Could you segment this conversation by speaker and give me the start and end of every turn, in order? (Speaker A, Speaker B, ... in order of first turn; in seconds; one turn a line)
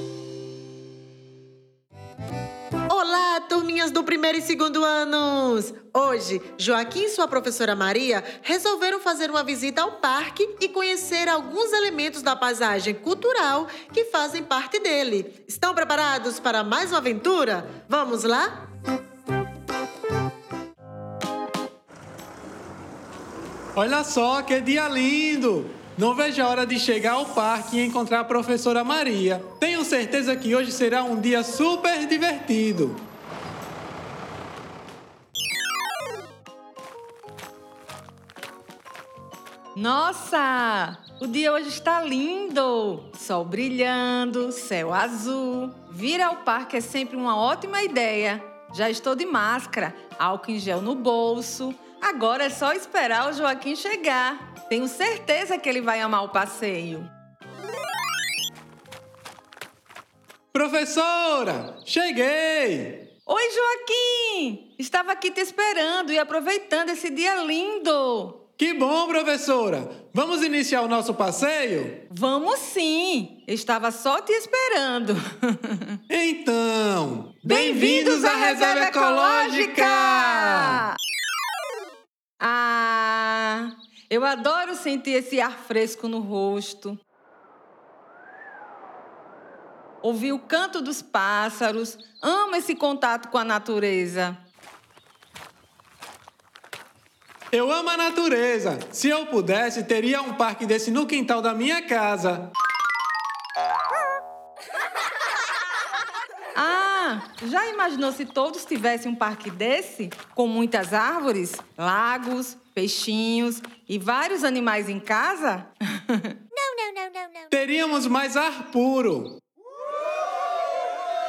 Speaker A: 2.9-18.5
Speaker B: 23.7-33.0
Speaker C: 39.7-57.1
Speaker B: 60.5-63.1
Speaker C: 63.2-68.4
Speaker B: 68.6-72.0
Speaker C: 72.1-76.0
Speaker B: 76.1-80.8
Speaker C: 77.4-80.9
Speaker C: 82.4-87.0
Speaker C: 90.0-94.4
Speaker B: 97.5-102.5
Speaker C: 106.5-116.3
Speaker A: 116.7-117.2
Speaker B: 117.5-119.4